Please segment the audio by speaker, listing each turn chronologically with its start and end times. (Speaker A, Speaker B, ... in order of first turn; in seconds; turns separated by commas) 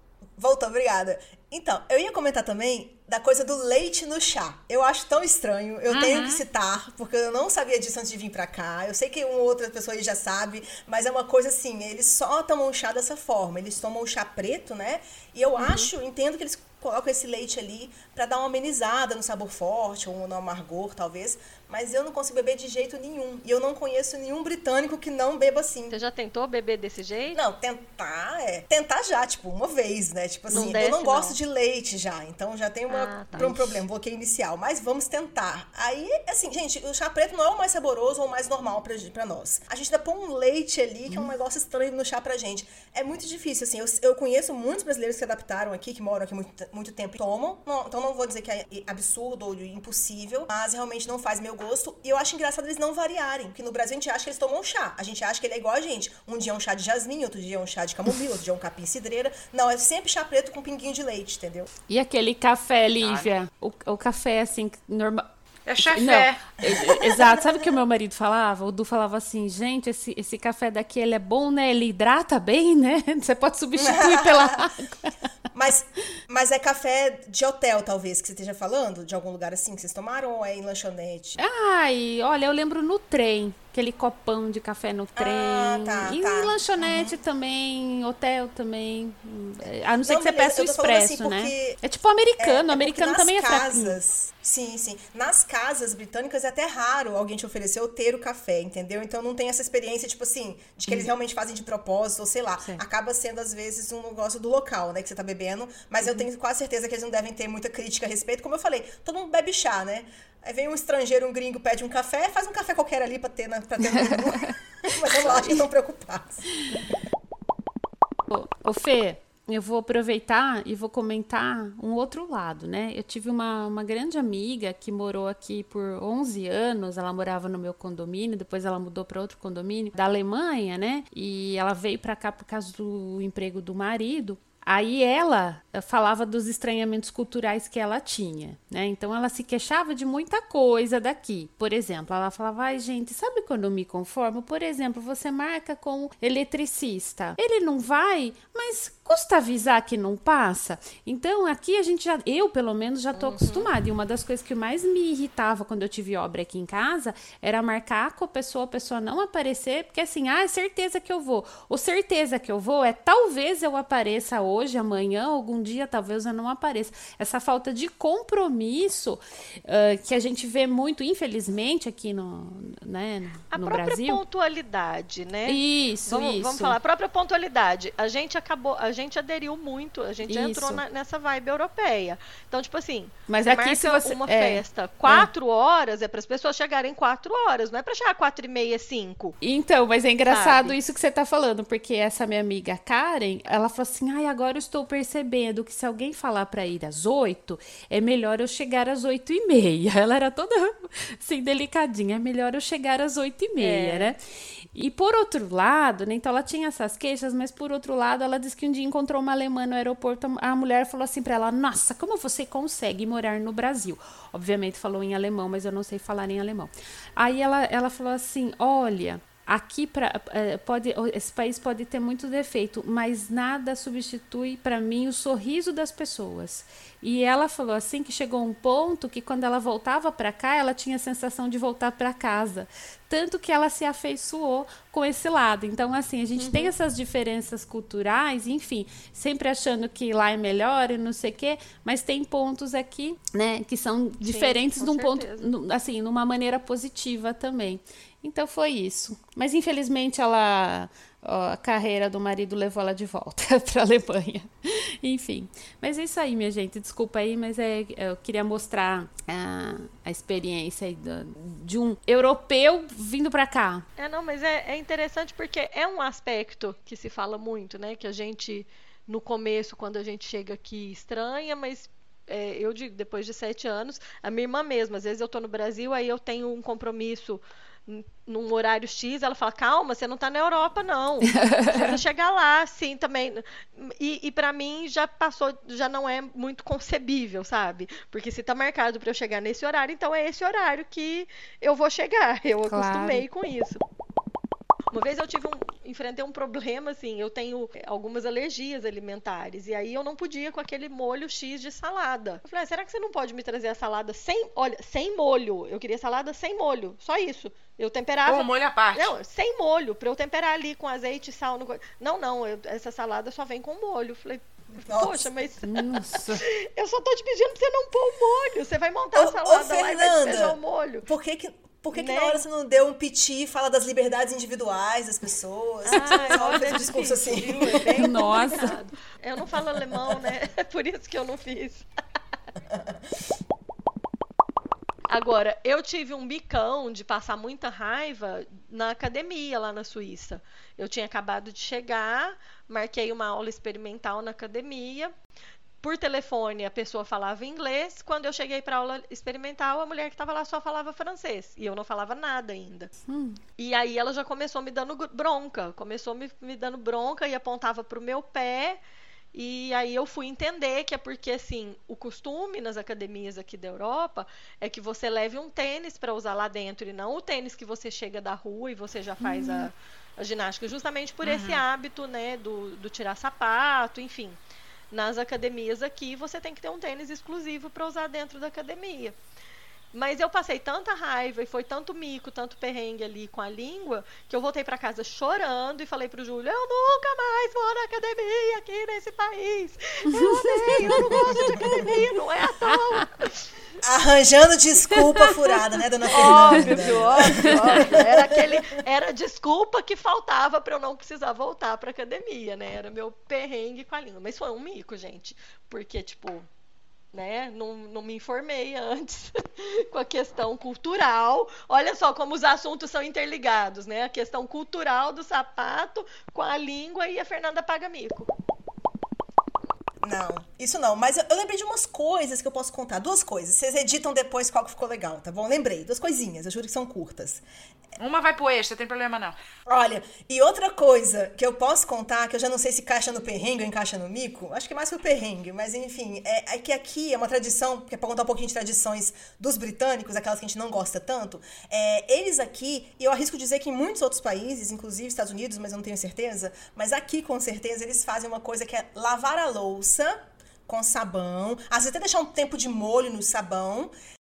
Speaker A: 0.4-26.0, Speaker B: 5.9-6.4, Speaker C: 15.6-15.9, Speaker C: 25.9-27.4, Speaker A: 27.3-61.7, Speaker C: 30.5-31.4, Speaker C: 32.9-33.8, Speaker D: 61.9-65.3, Speaker B: 63.0-63.3, Speaker B: 65.7-66.4, Speaker D: 65.8-75.1, Speaker A: 66.7-67.6, Speaker A: 73.8-74.7, Speaker A: 75.5-81.4, Speaker D: 81.4-94.0, Speaker A: 85.2-87.2, Speaker A: 90.0-91.8, Speaker A: 92.4-116.4, Speaker D: 113.9-114.5, Speaker D: 115.1-115.6, Speaker D: 118.3-174.2, Speaker C: 153.1-153.7, Speaker C: 173.5-189.4, Speaker D: 175.4-176.8, Speaker D: 180.3-180.8, Speaker D: 183.3-185.3, Speaker D: 189.4-204.2, Speaker C: 190.3-190.8, Speaker C: 203.6-204.1, Speaker D: 204.7-263.8, Speaker C: 236.4-236.7, Speaker C: 244.2-245.5, Speaker C: 264.0-293.8, Speaker D: 281.3-282.0, Speaker D: 292.7-293.2, Speaker C: 294.9-321.1, Speaker B: 308.2-309.1, Speaker A: 314.8-315.3, Speaker D: 315.6-316.4, Speaker A: 319.1-328.0, Speaker C: 321.9-322.4, Speaker C: 325.8-331.9, Speaker D: 326.0-326.4, Speaker D: 328.0-328.8, Speaker A: 329.9-330.3, Speaker A: 332.7-333.0, Speaker C: 335.1-345.1, Speaker C: 345.8-352.9, Speaker D: 353.1-353.4, Speaker C: 353.6-358.8, Speaker C: 359.3-374.4, Speaker D: 369.2-369.7, Speaker B: 371.2-371.6, Speaker C: 374.9-379.2, Speaker C: 379.9-393.5, Speaker D: 390.1-391.8, Speaker A: 391.3-392.0, Speaker A: 393.8-398.8, Speaker C: 396.1-406.5, Speaker D: 396.2-396.6, Speaker D: 397.2-397.9, Speaker C: 407.1-418.3, Speaker A: 420.0-427.4, Speaker B: 428.0-429.4, Speaker A: 429.7-453.9